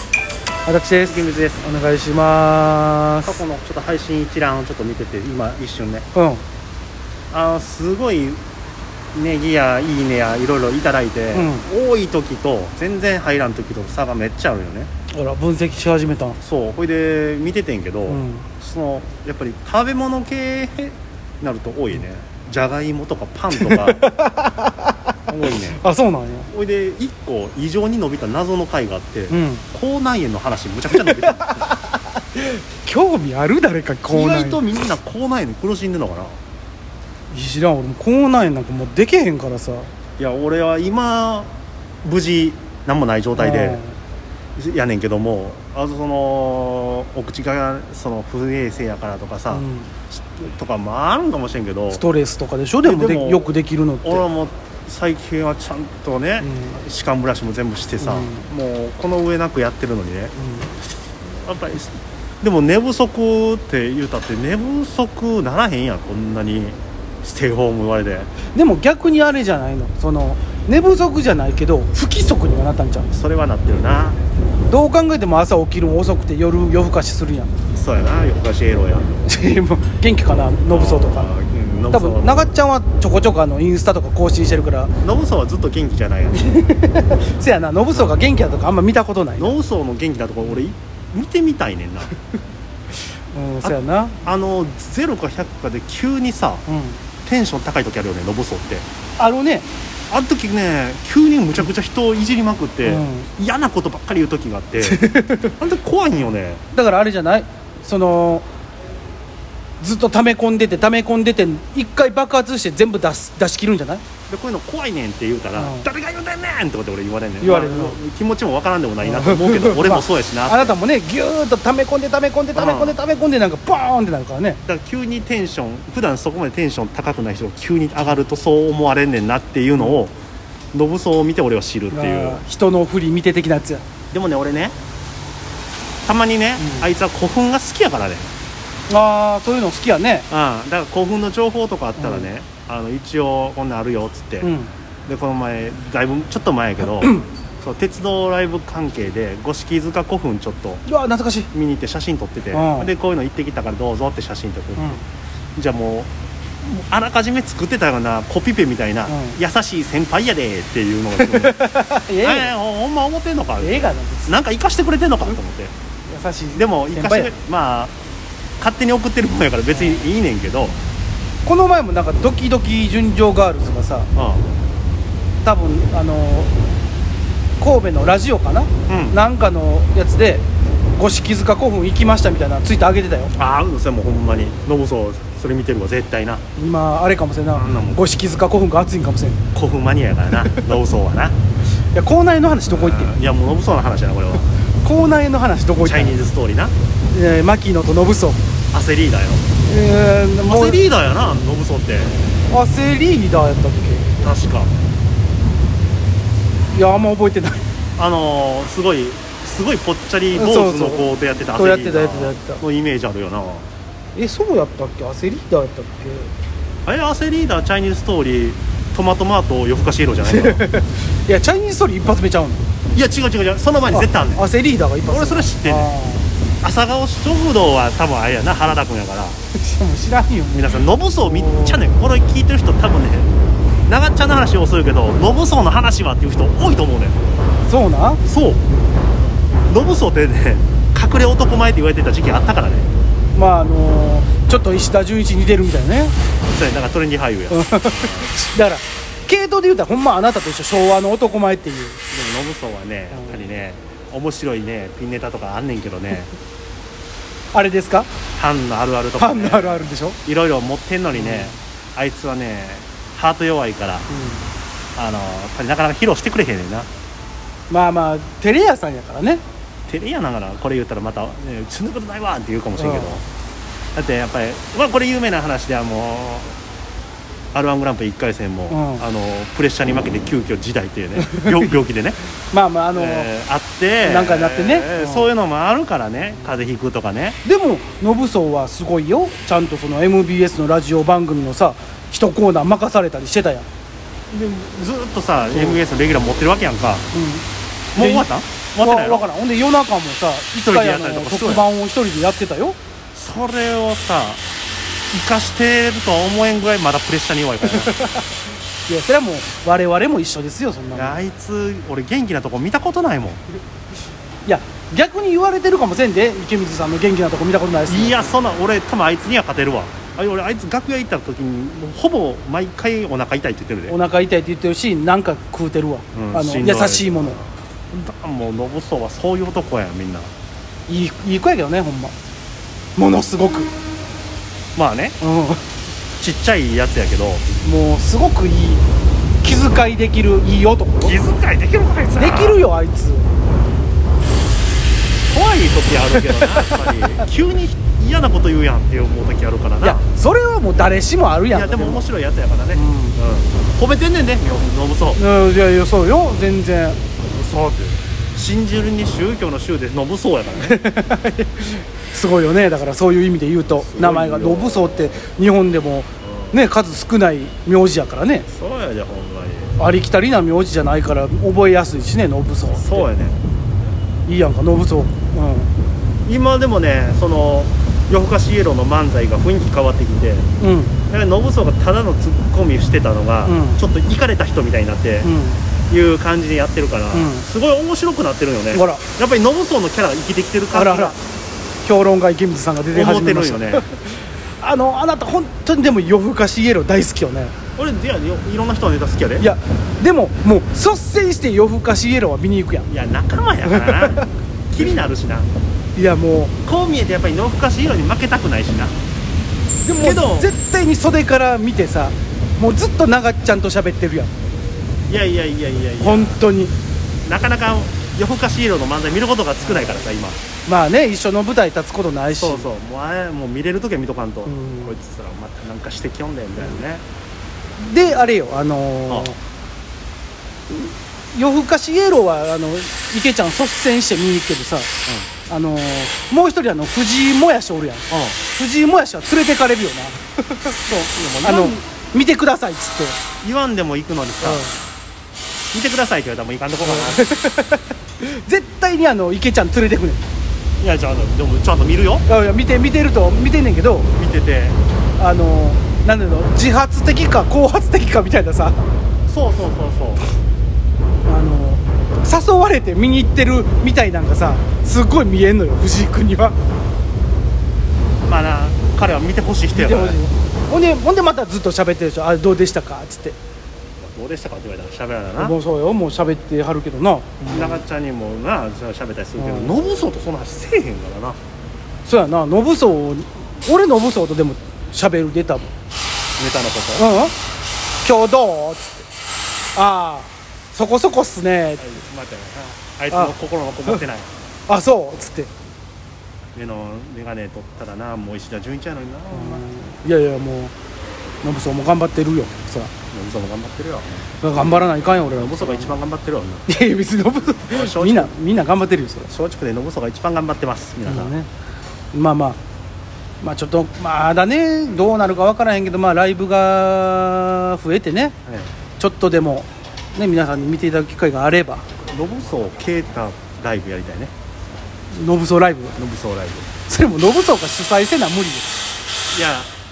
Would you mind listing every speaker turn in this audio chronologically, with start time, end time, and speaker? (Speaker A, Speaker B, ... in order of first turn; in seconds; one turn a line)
Speaker A: 0.7-3.4
Speaker B: 1.0-1.6
Speaker B: 3.2-6.0
Speaker A: 6.1-6.4
Speaker B: 7.3-8.4
Speaker B: 9.1-14.9
Speaker A: 11.3-11.6
Speaker A: 15.1-16.4
Speaker B: 16.4-24.0
Speaker A: 18.1-18.5
Speaker A: 23.5-24.9
Speaker B: 25.3-25.8
Speaker A: 25.7-26.5
Speaker B: 26.5-31.6
Speaker A: 29.3-29.6
Speaker A: 30.9-34.8
Speaker B: 34.1-36.4
Speaker A: 37.3-39.9
Speaker B: 40.2-43.8
Speaker A: 43.3-44.0
Speaker B: 44.5-52.0
Speaker A: 49.5-49.9
Speaker A: 51.9-54.2
Speaker B: 52.8-53.5
Speaker B: 54.0-60.3
Speaker A: 56.4-56.8
Speaker A: 58.0-58.5
Speaker A: 60.4-60.7
Speaker B: 61.3-68.3
Speaker A: 68.5-73.1
Speaker B: 73.1-74.2
Speaker A: 74.7-77.5
Speaker B: 77.7-79.2
Speaker A: 79.2-81.3
Speaker B: 80.7-82.5
Speaker A: 81.9-84.9
Speaker B: 85.0-86.5
Speaker A: 86.3-89.5
Speaker B: 89.4-92.1
Speaker A: 93.3-94.2
Speaker B: 93.6-96.6
Speaker A: 96.7-97.0
Speaker B: 97.2-98.8
Speaker A: 99.2-99.7
Speaker B: 100.1-106.6
Speaker A: 102.8-103.3
Speaker A: 104.8-105.5
Speaker A: 106.7-108.5
Speaker A: 109.8-114.0
Speaker B: 114.3-120.7
Speaker A: 115.6-115.9
Speaker A: 117.4-118.0
Speaker A: 119.0-124.6
Speaker B: 122.5-123.0
Speaker B: 124.7-130.1
Speaker B: 130.7-132.4
Speaker A: 131.9-133.8
Speaker B: 134.1-134.8
Speaker B: 136.0-138.3
Speaker A: 136.6-136.9
Speaker A: 138.9-140.3
Speaker B: 140.3-144.5
Speaker A: 142.0-142.3
Speaker A: 144.4-144.7
Speaker B: 145.1-150.8
Speaker A: 146.8-147.2
Speaker A: 150.9-151.5
Speaker B: 151.5-155.0
Speaker A: 152.5-152.9
Speaker A: 154.8-155.0
Speaker B: 155.6-156.1
Speaker B: 156.6-161.7
Speaker A: 159.1-159.4
Speaker A: 161.2-162.5
Speaker B: 162.2-165.7
Speaker A: 163.6-164.4
Speaker A: 166.1-167.3
Speaker B: 166.5-167.9
Speaker B: 168.6-170.8
Speaker A: 169.7-170.1
Speaker A: 171.4-174.1
Speaker B: 174.1-174.4
Speaker A: 175.4-176.5
Speaker A: 177.6-183.3
Speaker B: 178.9-179.2
Speaker B: 183.3-186.4
Speaker A: 186.6-189.4
Speaker B: 187.5-188.0
Speaker B: 189.5-191.3
Speaker A: 190.4-190.7
Speaker A: 191.9-193.1
Speaker B: 192.7-194.5
Speaker A: 194.8-196.2
Speaker B: 195.8-196.7
Speaker A: 197.1-198.4
Speaker B: 198.7-199.4
Speaker A: 199.7-200.8
Speaker B: 200.4-202.2
Speaker A: 202.5-204.1
Speaker B: 204.2-204.7
Speaker A: 206.7-207.6
Speaker B: 208.0-213.7
Speaker A: 210.3-212.6
Speaker A: 214.1-216.3
Speaker B: 216.8-220.6
Speaker A: 220.2-222.6
Speaker B: 222.9-224.4
Speaker A: 223.9-226.3
Speaker B: 225.1-225.9
Speaker B: 226.6-229.4
Speaker A: 229.6-231.8
Speaker B: 230.5-233.3
Speaker B: 233.8-237.4
Speaker A: 237.7-238.2
Speaker B: 238.2-238.6
Speaker B: 239.6-242.9
Speaker A: 243.3-246.1
Speaker B: 246.5-248.3
Speaker A: 247.5-252.0
Speaker B: 252.1-256.3
Speaker A: 253.1-253.4
Speaker A: 257.5-258.1
Speaker B: 258.4-264.1
Speaker A: 259.2-260.2
Speaker A: 261.1-261.6
Speaker A: 264.1-264.4
Speaker B: 264.9-266.9
Speaker A: 267.7-269.4
Speaker B: 269.9-273.2
Speaker A: 272.8-273.2
Speaker B: 273.9-276.6
Speaker B: 277.5-282.2
Speaker A: 278.7-279.0
Speaker A: 281.2-281.7
Speaker A: 282.5-283.3
Speaker B: 282.9-287.4
Speaker A: 284.0-285.3
Speaker A: 287.4-293.7
Speaker B: 294.3-297.1
Speaker A: 297.1-297.4
Speaker B: 297.9-299.3
Speaker A: 298.0-298.3
Speaker A: 298.8-302.8
Speaker B: 300.6-301.7
Speaker B: 303.1-304.4
Speaker B: 305.1-307.9
Speaker A: 307.7-308.3
Speaker A: 308.9-311.2
Speaker B: 310.9-313.4
Speaker A: 314.4-318.3
Speaker B: 317.9-323.9
Speaker A: 323.9-327.4
Speaker B: 326.1-330.3
Speaker A: 330.9-332.1
Speaker A: 332.9-333.7
Speaker B: 334.7-335.2
Speaker A: 335.2-335.6
Speaker B: 336.2-337.4
Speaker A: 337.6-338.8
Speaker A: 339.4-341.2
Speaker B: 341.0-342.6
Speaker A: 342.1-343.3
Speaker B: 345.3-350.0
Speaker A: 346.1-346.9
Speaker A: 349.8-352.0
Speaker B: 351.5-355.2
Speaker A: 352.7-353.2
Speaker A: 355.1-357.0
Speaker B: 357.3-360.8
Speaker A: 360.6-368.4
Speaker B: 363.7-365.2
Speaker B: 366.2-366.6
Speaker B: 368.5-369.8
Speaker A: 369.8-373.1
Speaker B: 372.7-373.4
Speaker A: 374.3-375.7
Speaker B: 376.2-380.5
Speaker A: 380.6-380.9
Speaker B: 381.1-385.3
Speaker A: 383.4-383.8
Speaker A: 385.2-385.6
Speaker B: 385.9-391.2
Speaker A: 387.1-387.4
Speaker A: 388.7-389.0
Speaker A: 390.7-391.1
Speaker A: 391.8-397.5
Speaker B: 392.9-393.9
Speaker B: 397.8-399.5
Speaker A: 399.4-402.9
Speaker B: 402.9-405.5
Speaker A: 403.7-404.3
Speaker A: 405.9-406.5
Speaker B: 406.6-409.0
Speaker A: 409.8-414.3
Speaker B: 410.0-410.5
Speaker B: 415.1-416.4
Speaker A: 416.0-416.7
Speaker B: 417.2-420.4
Speaker A: 419.6-422.7
Speaker B: 422.3-427.0
Speaker A: 424.4-424.9
Speaker A: 427.8-429.4
Speaker B: 429.1-429.3
Speaker A: 430.7-434.9
Speaker A: 435.5-440.6
Speaker B: 438.1-438.4
Speaker B: 440.8-441.8
Speaker A: 441.4-443.2
Speaker B: 443.4-444.6
Speaker A: 444.4-444.7
Speaker B: 445.7-447.3
Speaker A: 446.8-450.2
Speaker B: 450.8-452.2
Speaker A: 452.3-454.1
Speaker B: 454.1-454.8
Speaker A: 455.2-458.8
Speaker B: 459.3-460.2
Speaker A: 461.2-466.6
Speaker B: 468.2-470.2
Speaker A: 469.7-473.4
Speaker B: 474.0-475.6
Speaker A: 475.4-477.8
Speaker B: 477.5-481.4
Speaker A: 479.4-479.8
Speaker A: 482.0-485.7
Speaker B: 486.4-487.1
Speaker A: 487.0-487.3
Speaker A: 488.0-489.1
Speaker A: 489.8-491.9
Speaker B: 491.8-494.3
Speaker A: 494.7-495.5
Speaker B: 496.5-499.6
Speaker A: 499.3-500.7
Speaker A: 501.4-502.9
Speaker B: 503.1-504.3
Speaker A: 504.4-505.9
Speaker B: 505.3-506.7
Speaker A: 506.7-509.3
Speaker B: 507.7-508.3
Speaker B: 509.2-511.3
Speaker A: 511.0-511.5
Speaker A: 512.1-512.6
Speaker A: 513.4-518.4
Speaker B: 518.5-518.7
Speaker A: 519.0-521.8
Speaker B: 522.1-524.3
Speaker A: 525.1-526.0
Speaker B: 526.0-526.7
Speaker A: 526.9-528.7
Speaker B: 529.3-529.7